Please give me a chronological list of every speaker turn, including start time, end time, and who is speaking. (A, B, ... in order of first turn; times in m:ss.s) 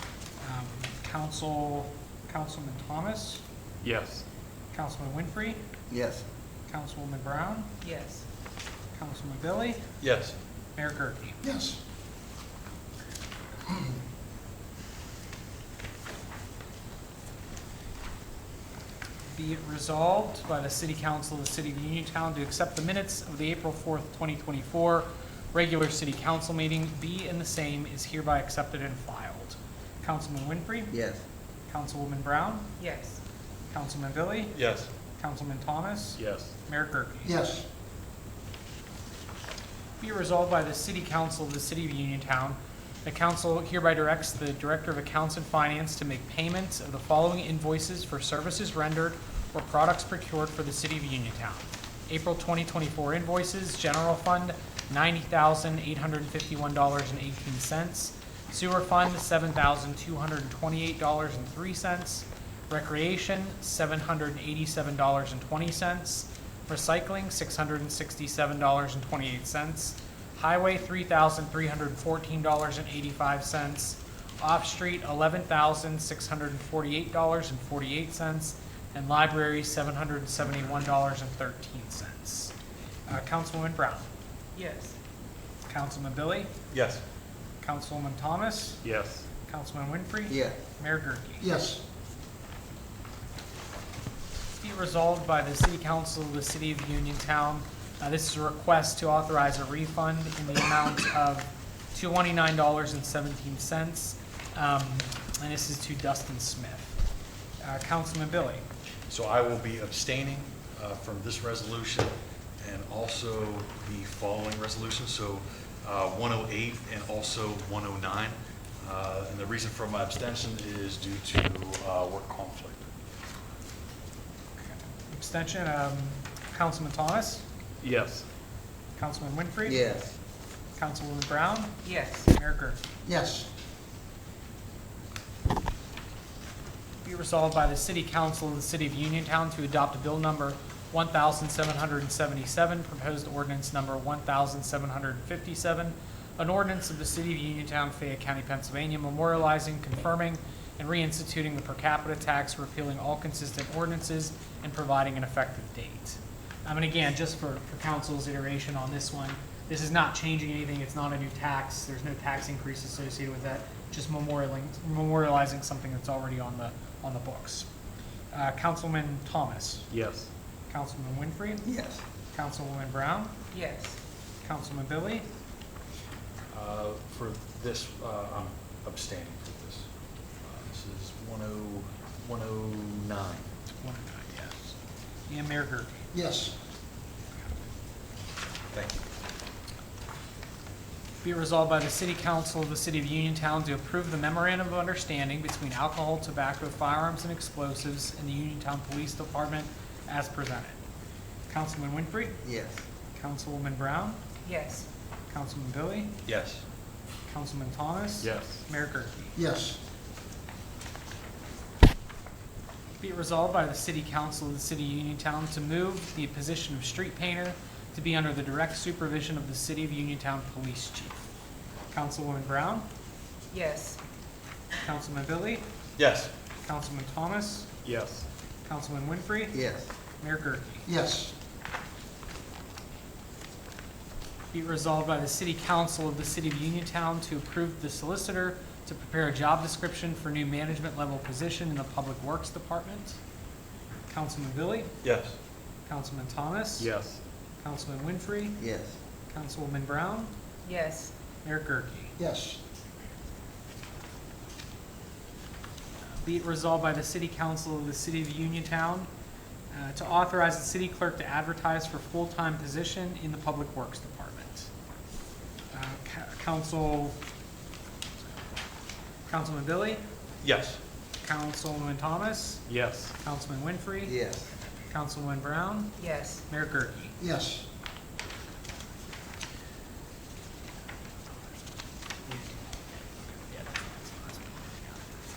0:00.4-0:03.4 A
0:03.8-0:04.2 B
0:04.7-0:05.6 A
0:05.9-0:06.2 C
0:06.7-0:07.8 A
0:07.8-0:08.2 D
0:08.9-0:09.9 A
0:10.0-0:10.4 E
0:10.8-0:11.4 A
0:11.4-0:11.8 C
0:19.3-0:31.0 A
0:31.7-0:32.8 A
0:32.8-0:33.2 D
0:33.7-0:34.6 A
0:34.6-0:34.9 E
0:35.2-0:37.3 A
0:36.2-0:36.5 B
0:37.2-0:37.7 C
0:40.0-1:22.5 A
1:23.1-1:24.1 A
1:24.6-1:25.0 D
1:25.7-1:26.5 A
1:26.7-1:27.0 E
1:27.6-1:28.8 A
1:28.8-1:29.3 B
1:29.4-1:31.5 A
1:31.4-1:31.8 C
1:34.6-1:47.0 A
1:47.6-1:48.6 A
1:49.1-2:02.9 E
2:04.6-2:07.4 A
2:07.8-2:08.2 B
2:09.0-2:10.0 A
2:10.8-2:12.8 A
2:11.8-2:12.3 D
2:13.0-2:13.5 C
2:17.0-2:47.7 A
2:48.3-2:49.9 A
2:49.9-2:50.3 B
2:50.7-2:51.7 A
2:52.3-2:53.4 A
2:53.5-2:54.0 D
2:54.4-2:55.3 A
2:56.5-2:59.9 E
3:00.4-3:03.5 E
3:03.8-3:04.8 A
3:05.3-3:06.0 A
3:06.1-3:06.6 C
3:08.7-3:09.1 E
3:11.2-3:20.8 A
3:21.5-3:22.4 A
3:22.5-3:22.8 E
3:23.1-3:24.2 A
3:24.4-3:24.9 D
3:25.3-3:26.2 A
3:26.2-3:26.6 E
3:27.3-3:29.4 A
3:28.2-3:28.6 B
3:29.4-3:29.8 C
3:33.0-3:41.2 A
3:41.9-3:42.9 A
3:43.5-3:44.0 D
3:44.8-3:45.6 A
3:46.0-3:46.3 E
3:46.6-3:47.7 A
3:47.8-3:48.2 B
3:48.6-3:50.9 A
3:50.9-3:51.3 C
3:54.5-4:03.2 A
4:04.1-4:05.0 A
4:05.0-4:05.4 E
4:05.8-4:06.9 A
4:06.8-4:07.2 B
4:07.6-4:08.7 A
4:08.6-4:08.9 E
4:09.3-4:10.3 A
4:10.6-4:11.1 D
4:11.4-4:12.2 A
4:12.2-4:12.6 C
4:16.2-4:19.1 A
4:19.7-4:24.7 A
4:25.7-4:27.2 A
4:29.3-4:30.0 A
4:30.4-4:30.8 E
4:31.2-4:32.6 A
4:32.7-4:33.1 B
4:33.2-4:34.2 A
4:34.9-4:37.2 A
4:36.0-4:36.4 D
4:37.2-4:37.7 C
4:42.3-4:42.5 A
4:43.5-4:45.0 A